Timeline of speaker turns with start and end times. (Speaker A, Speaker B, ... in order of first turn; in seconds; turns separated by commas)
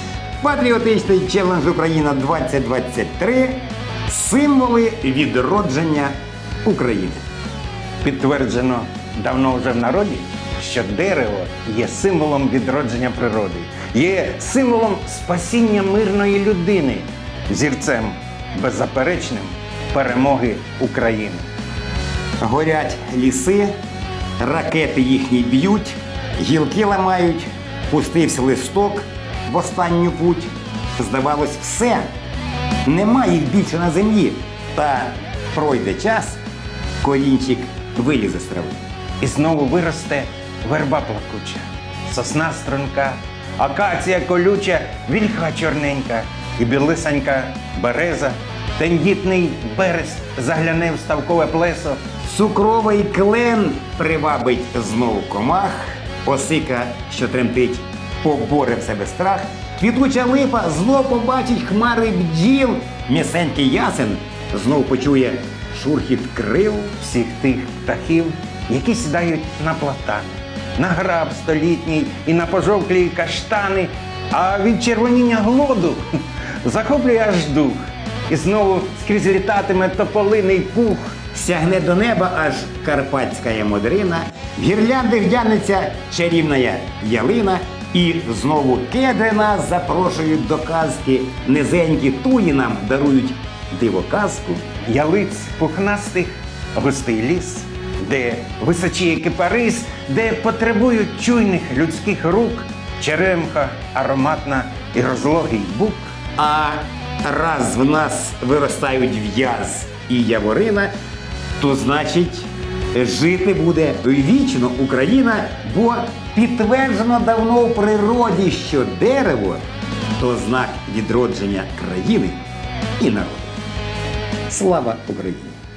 Speaker A: 0.4-6.1, Speaker A: 6.6-7.2, Speaker B: 8.0-21.4, Speaker A: 22.4-23.7, Speaker A: 24.4-32.1, Speaker A: 32.8-36.4, Speaker A: 37.0-38.8, Speaker B: 39.2-52.0, Speaker A: 52.2-67.0, Speaker B: 67.0-81.2, Speaker A: 81.3-94.6, Speaker B: 94.9-106.1, Speaker A: 106.4-110.9, Speaker A: 111.6-119.6, Speaker A: 120.2-122.4, Speaker A: 123.0-123.5, Speaker A: 124.5-125.6